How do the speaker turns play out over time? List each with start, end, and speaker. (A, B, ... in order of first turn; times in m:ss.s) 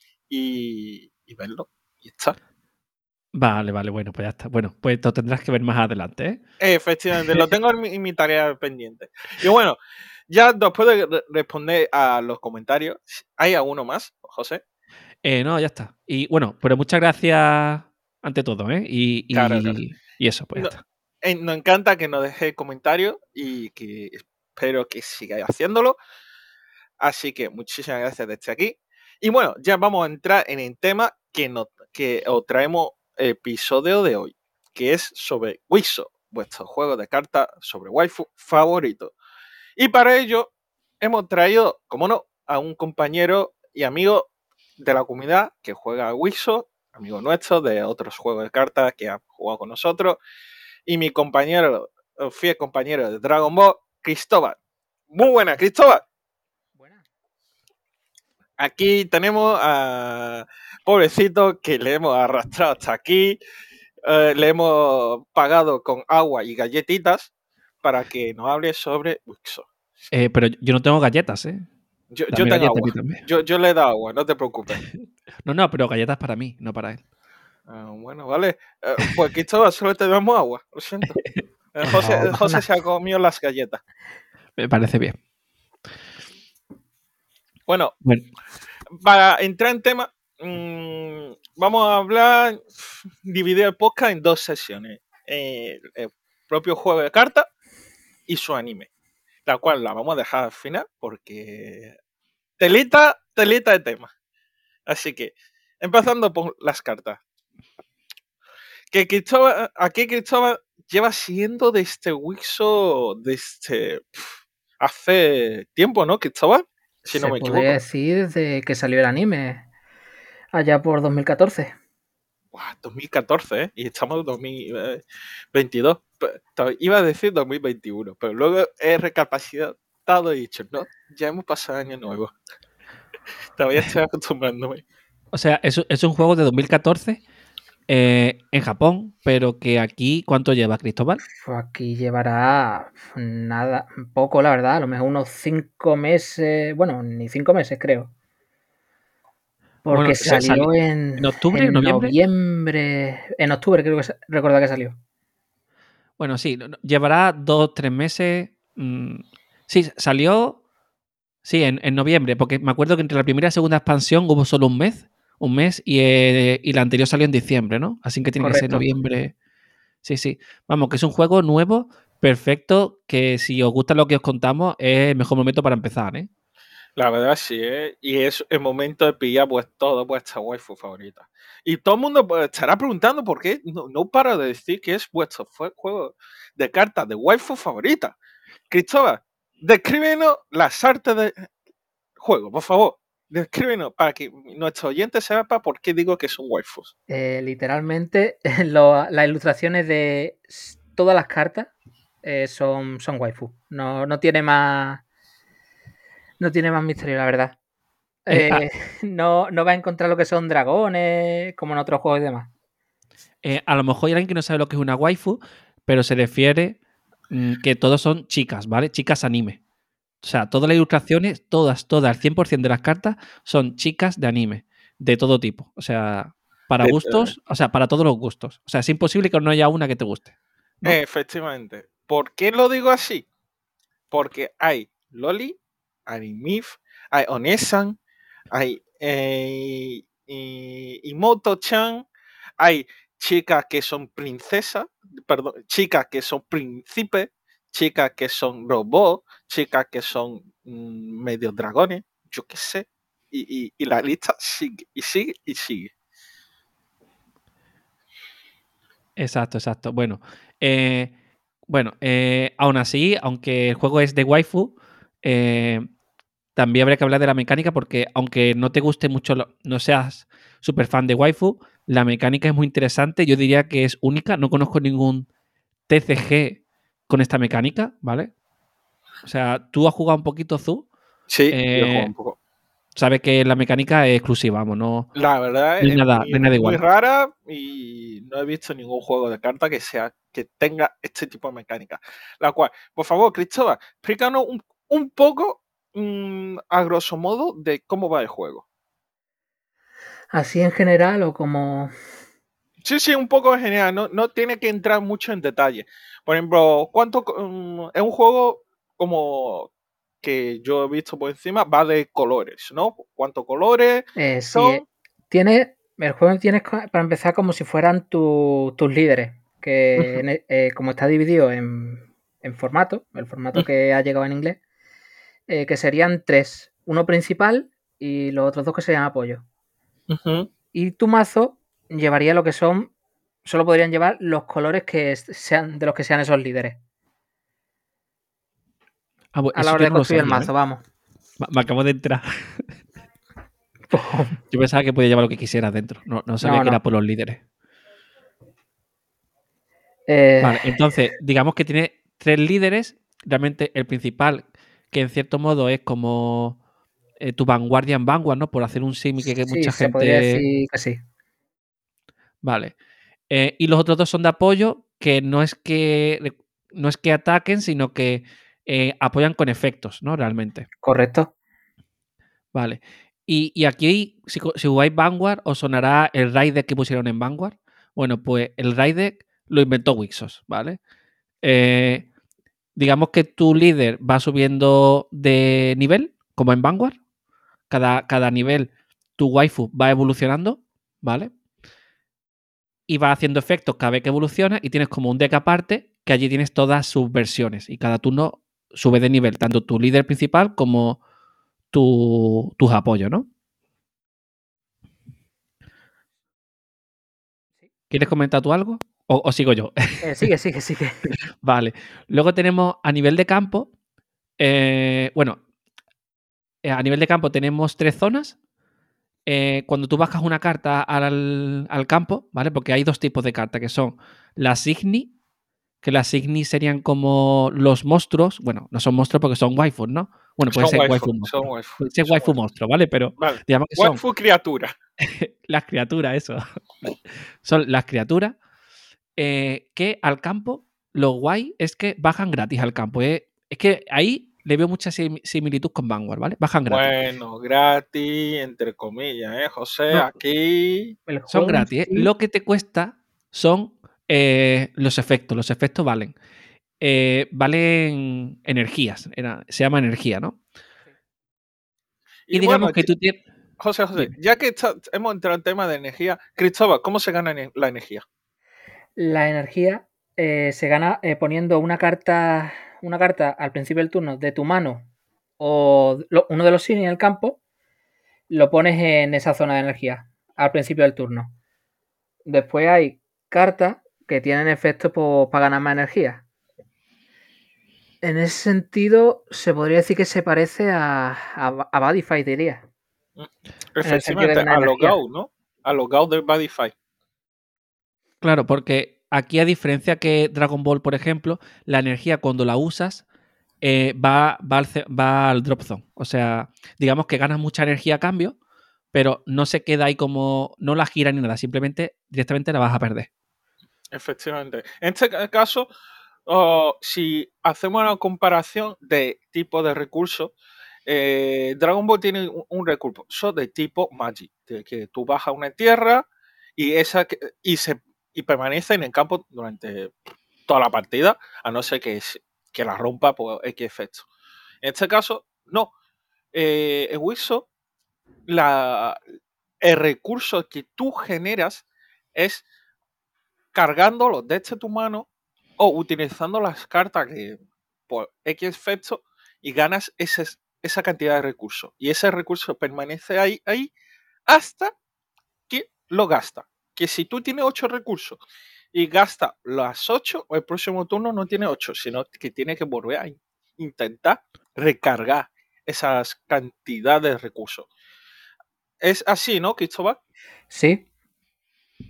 0:00.3-0:02.4 A
0:03.4-0:06.4 B
0:06.6-0:09.8 A
0:10.3-0:14.6 A
0:15.2-0:20.8 B
0:19.3-0:19.8 A
0:20.6-0:26.0 A
0:27.0-0:39.1 A
0:39.8-0:44.3 A
0:44.8-0:50.2 A
0:50.9-0:54.6 A
0:55.1-0:56.0 A
0:56.8-0:57.1 C
0:58.6-1:03.4 A
1:04.0-1:07.3 A
1:07.8-1:09.7 A
1:10.1-1:11.6 B
1:12.1-1:14.8 A
1:12.3-1:13.2 B
1:14.9-1:17.0 B
1:17.7-1:21.2 A
1:21.2-1:22.0 B
1:21.8-1:23.8 A
1:21.9-1:22.6 C
1:24.6-1:25.2 B
1:27.7-1:27.9 A
1:29.0-1:37.5 A
1:38.3-1:38.9 A
1:39.5-1:42.0 A
1:42.6-1:44.1 A
1:44.9-1:47.2 A
1:48.9-1:57.8 A
1:57.1-1:59.7 C
2:00.5-2:01.7 C
2:02.5-2:12.3 A
2:13.6-2:14.8 A
2:15.3-2:17.2 B
2:17.9-2:21.2 B
2:21.4-2:28.1 C
2:29.8-2:35.0 C
2:29.9-2:32.2 B
2:36.2-2:40.6 B
2:41.4-2:49.3 B
2:48.4-2:48.8 C
2:50.0-2:56.3 B
2:57.0-3:08.2 A
3:08.7-3:11.5 A
3:12.2-3:16.9 A
3:17.1-3:21.7 C
3:22.2-3:25.0 C
3:26.4-3:27.6 C
3:28.3-3:32.5 C
3:28.3-3:28.6 B
3:33.4-3:36.8 B
3:37.3-3:39.6 B
3:40.2-3:51.0 B
3:46.8-3:47.3 A
3:50.8-3:53.3 A
3:54.1-3:58.0 A
3:58.5-4:02.0 A
4:02.6-4:15.9 A
4:19.2-4:21.1 B
4:21.7-4:25.9 B
4:26.6-4:35.3 B
4:35.9-4:38.3 B
4:39.2-4:40.9 B
4:41.3-4:42.4 A
4:41.5-4:42.1 B
4:43.0-4:45.1 B
4:45.2-4:58.6 A
4:45.8-4:46.8 B
5:00.3-5:01.9 C
5:02.8-5:09.7 A
5:10.2-5:14.8 A
5:14.2-5:24.6 C
5:20.0-5:20.2 A
5:25.5-5:29.4 C
5:30.1-5:30.5 A
5:30.7-5:32.9 C
5:33.4-5:36.8 C
5:39.3-5:40.5 B
5:39.5-5:40.8 C
5:41.4-5:42.6 B
5:43.9-5:44.4 C
5:44.5-5:47.4 B
5:46.4-5:46.8 C
5:50.1-5:50.9 C
5:50.4-5:56.6 B
5:57.2-6:00.4 B
5:59.5-6:01.0 C
6:02.4-6:02.7 B
6:03.3-6:10.7 B
6:10.8-6:11.3 C
6:12.5-6:20.8 B
6:21.4-6:22.1 B
6:22.8-6:27.0 B
6:27.7-6:31.3 B
6:32.9-6:41.0 B
6:41.7-6:43.3 B
6:47.9-6:50.2 B
6:50.0-6:51.0 C
6:51.4-6:53.7 B
6:54.4-6:55.4 B
6:56.6-6:58.4 B
6:59.3-7:05.1 B
7:05.8-7:14.0 B
7:10.5-7:12.4 A
7:13.2-7:14.8 A
7:15.0-7:16.4 B
7:17.4-7:18.4 B
7:19.2-7:26.9 B
7:26.7-7:31.0 A
7:31.1-7:32.1 C
7:31.3-7:36.2 B
7:36.8-7:40.4 B
7:42.3-7:42.9 A
7:42.3-7:43.2 B
7:43.6-7:48.0 A
7:49.0-7:57.4 C
7:58.3-8:01.4 C
8:02.3-8:06.2 C
8:08.0-8:12.6 C
8:13.2-8:16.7 A
8:13.8-8:15.0 C
8:18.2-8:23.0 B
8:23.6-8:28.4 B
8:28.9-8:33.1 B
8:33.9-8:35.7 A
8:36.3-8:40.3 A
8:40.9-8:54.1 A
8:54.6-8:55.7 A
8:56.3-8:57.5 A
8:58.3-8:59.0 A
8:59.6-9:01.6 A
9:02.2-9:02.4 A
9:03.5-9:05.1 A
9:05.6-9:13.7 A
9:14.3-9:14.7 A
9:15.5-9:18.2 A
9:18.7-9:27.7 A
9:28.8-9:30.0 A
9:30.5-9:30.8 C